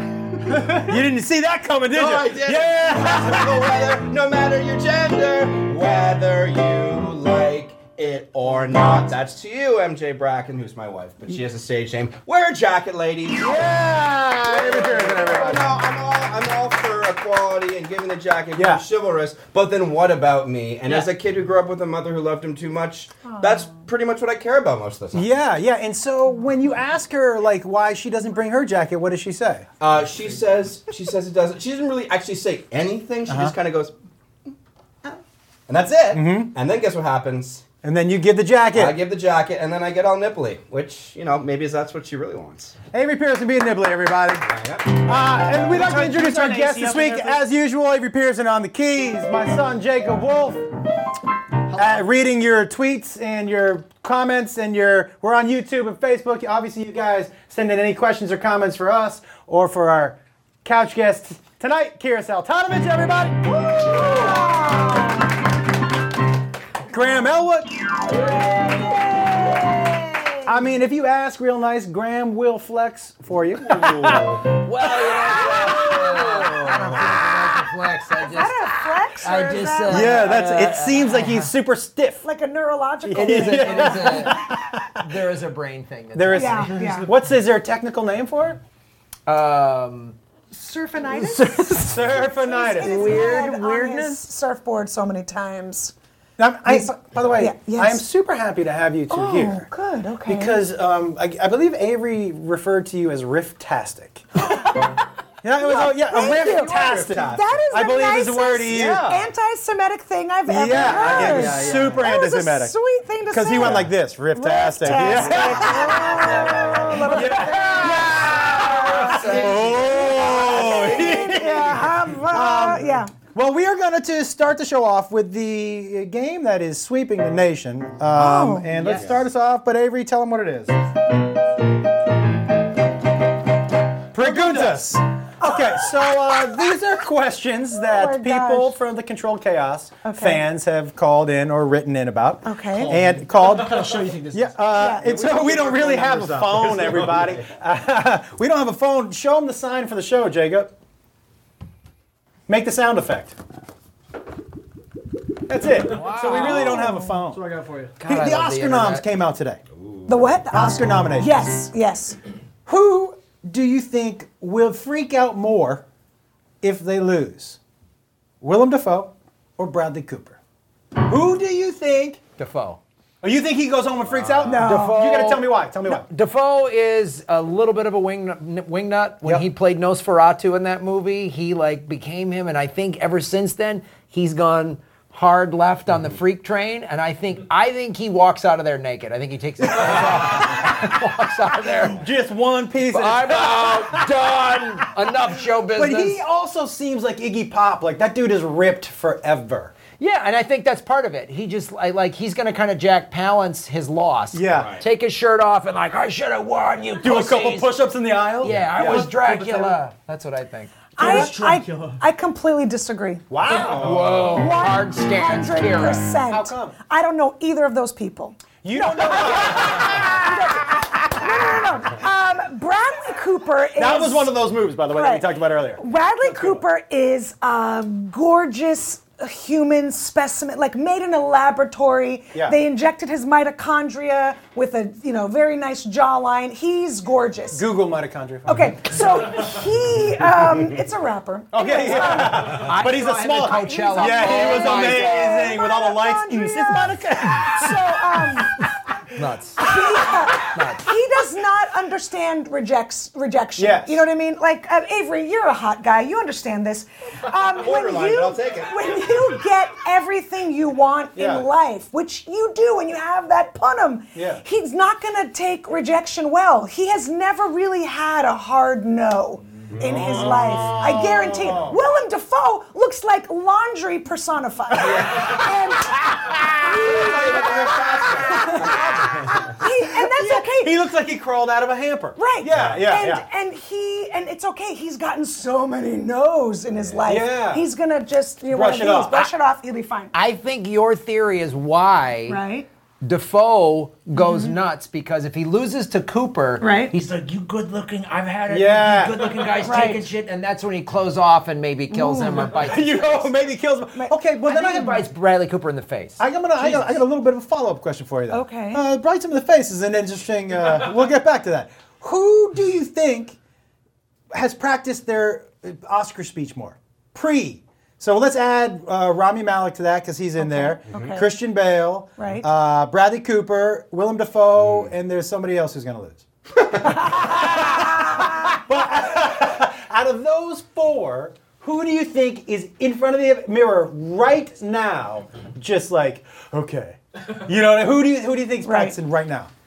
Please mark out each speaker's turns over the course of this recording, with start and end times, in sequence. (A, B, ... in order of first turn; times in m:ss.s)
0:00.7-0:03.6 A
0:01.9-0:13.7 B
0:08.8-0:09.1 A
0:13.4-0:15.7 A
0:14.5-0:25.3 B
0:18.5-0:18.8 A
0:25.1-0:29.6 A
0:29.8-0:33.9 B
0:33.3-0:33.5 A
0:35.7-0:37.6 B
0:36.1-0:36.5 A
0:37.8-0:39.0 A
0:38.7-0:42.8 B
0:42.9-0:50.6 A
0:44.4-0:45.0 B
0:45.7-0:47.4 C
0:51.7-0:52.0 C
0:51.7-1:04.4 A
1:03.8-1:05.3 D
1:06.9-1:07.7 A
1:08.1-1:09.6 E
1:08.8-1:10.0 D
1:10.4-1:14.4 A
1:13.7-1:14.4 B
1:14.5-1:21.5 E
1:15.4-1:17.1 A
1:18.2-1:20.4 D
1:19.8-1:22.2 A
1:22.2-1:24.8 D
1:23.0-1:25.0 A
1:23.1-1:26.8 E
1:26.1-1:28.6 A
1:26.3-1:27.1 D
1:26.7-1:27.1 C
1:29.3-1:30.2 E
1:30.5-1:35.9 D
1:31.0-1:32.1 E
1:31.8-1:33.1 A
1:32.8-1:34.2 E
1:36.4-1:39.7 A
1:36.6-1:38.0 D
1:39.1-1:40.7 D
1:40.2-1:44.7 A
1:44.4-1:44.9 D
1:45.4-1:49.1 A
1:45.6-1:58.0 D
1:46.2-1:47.6 B
1:48.8-1:49.2 B
1:50.5-1:52.7 A
1:50.7-1:52.0 B
1:53.3-1:56.5 A
1:55.6-1:56.9 B
1:57.0-2:00.3 E
1:57.0-2:10.7 A
1:58.6-2:03.1 D
1:58.8-2:01.8 B
2:08.2-2:08.7 D
2:08.8-2:09.1 C
2:14.1-2:23.8 A
2:14.2-2:14.8 C
2:15.4-2:15.9 D
2:17.8-2:18.8 D
2:20.0-2:20.4 D
2:22.4-2:22.9 D
2:22.8-2:24.8 C
2:24.3-2:30.7 A
2:24.7-2:25.2 D
2:25.0-2:27.5 B
2:32.5-2:33.3 A
2:35.5-2:37.4 A
2:35.8-2:36.9 E
2:36.2-2:37.9 C
2:36.6-2:37.1 D
2:38.0-2:39.0 E
2:38.0-2:39.6 A
2:39.8-2:40.1 B
2:40.1-2:42.2 D
2:40.5-2:41.5 A
2:42.6-2:45.8 A
2:46.6-2:47.6 A
2:48.4-2:50.4 A
2:51.0-2:52.2 A
2:52.4-2:52.8 E
2:53.2-2:56.0 A
2:54.1-2:54.5 B
2:54.4-2:55.2 D
2:54.6-3:12.0 E
3:11.7-3:14.1 A
3:12.9-3:16.2 E
3:15.8-3:19.7 A
3:20.0-3:27.8 E
3:24.3-3:24.7 A
3:24.5-3:24.8 B
3:27.0-3:29.1 A
3:28.4-3:31.0 E
3:28.4-3:28.7 B
3:28.8-3:29.8 C
3:31.0-3:32.0 C
3:31.0-3:33.2 D
3:31.0-3:31.3 A
3:33.3-3:34.0 A
3:33.5-3:34.3 B
3:33.5-3:36.0 E
3:34.3-3:57.7 D
3:36.3-3:36.8 A
3:38.6-3:40.1 A
3:43.8-3:46.6 A
3:57.5-3:58.6 A
3:58.4-4:02.7 D
4:01.5-4:07.8 A
4:02.2-4:05.4 E
4:03.3-4:08.6 D
4:09.2-4:09.7 E
4:09.6-4:40.8 D
4:10.4-4:10.9 E
4:13.6-4:14.0 A
4:17.6-4:19.4 B
4:21.1-4:21.4 A
4:24.1-4:24.4 A
4:29.7-4:31.0 B
4:29.8-4:31.8 A
4:34.8-4:35.4 B
4:36.7-4:39.5 B
4:38.3-4:38.9 A
4:40.1-4:43.2 A
4:42.2-4:50.1 D
4:42.5-4:42.8 B
4:47.0-4:47.6 A
4:48.5-4:49.3 A
4:50.1-4:52.4 E
4:52.3-4:52.7 D
4:53.0-5:03.3 E
4:54.1-4:54.5 D
4:56.6-4:56.9 D
4:58.5-4:59.2 A
4:59.6-5:00.0 D
5:01.9-5:02.6 D
5:02.5-5:05.0 A
5:04.5-5:06.8 E
5:06.2-5:13.4 A
5:08.3-5:08.8 D
5:14.3-5:39.5 A
5:20.4-5:21.3 D
5:22.2-5:22.4 D
5:27.1-5:28.6 D
5:38.6-5:38.9 D